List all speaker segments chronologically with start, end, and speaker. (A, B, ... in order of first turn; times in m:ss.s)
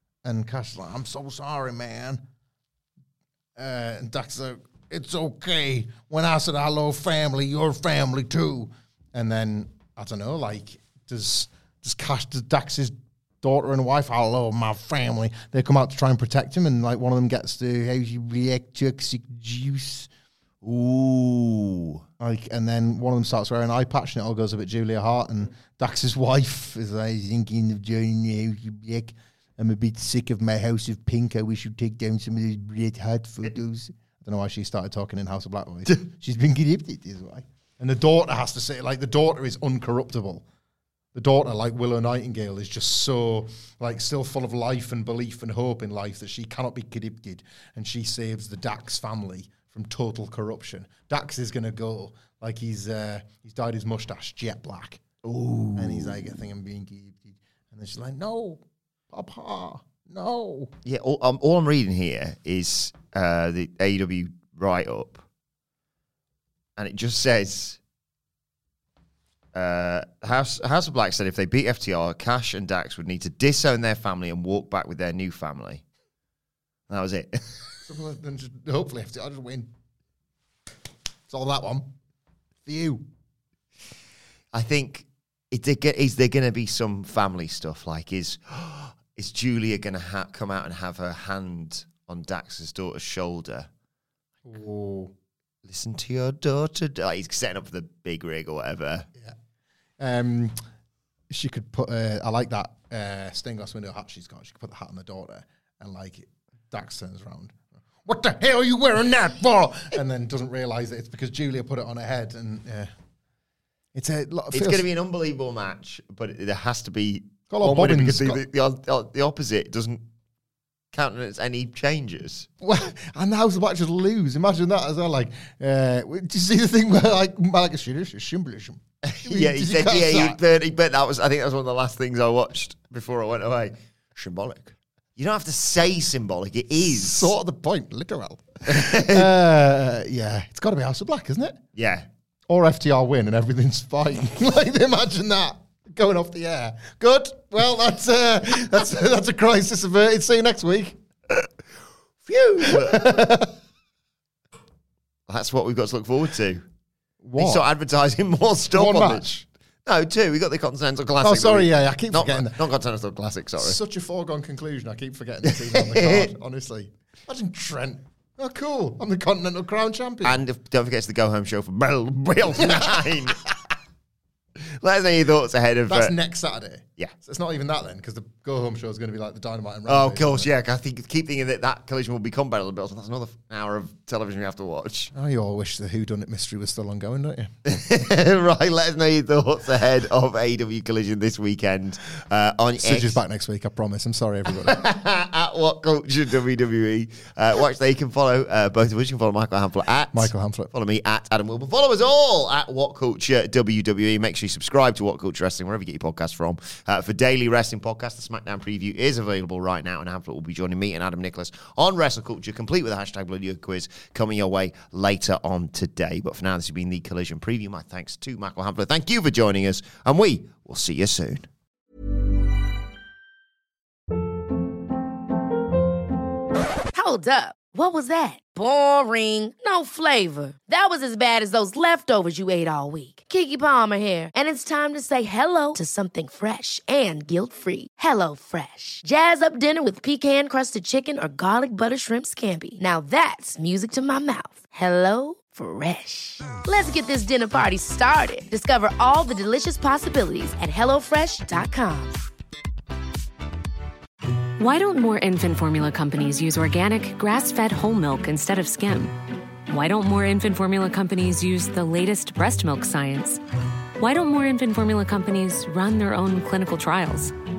0:00.2-0:02.2 A
0:03.6-0:20.1 A
0:20.6-0:22.0 B
0:22.2-0:40.4 A
0:41.1-0:55.0 A
0:55.2-0:56.2 B
0:55.8-1:00.7 A
1:00.8-1:05.2 B
1:06.8-1:07.8 B
1:09.5-1:15.8 B
1:16.9-1:17.8 B
1:17.8-1:19.7 A
1:21.3-1:21.9 A
1:22.6-1:23.0 A
1:24.5-1:33.7 B
1:34.4-1:35.1 A
1:35.6-1:39.1 B
1:40.0-1:40.6 A
1:41.3-1:52.9 A
1:53.9-1:54.8 A
1:54.5-2:00.0 B
1:57.5-1:58.4 A
2:00.9-2:02.5 B
2:02.6-2:10.4 A
2:09.0-2:17.3 B
2:16.9-2:21.6 A
2:18.7-2:19.3 B
2:21.8-2:22.1 B
2:22.5-2:31.0 A
2:32.2-2:33.4 B
2:32.6-2:33.5 A
2:35.3-2:36.6 B
2:37.2-2:37.6 A
2:37.4-2:39.3 B
2:38.7-2:39.4 A
2:39.8-2:43.8 B
2:41.2-2:42.6 A
2:43.6-2:50.4 A
2:45.4-2:46.3 B
2:50.2-2:53.6 B
2:52.6-2:53.1 A
2:54.6-2:56.2 B
2:55.9-3:00.5 A
2:59.9-3:05.1 B
3:05.1-3:07.5 A
3:07.6-3:13.2 B
3:12.8-3:14.8 A
3:14.5-3:41.5 B
3:20.1-3:20.7 A
3:46.9-4:12.2 C
4:14.6-4:19.1 D
4:19.7-4:23.4 D
4:24.0-4:27.3 D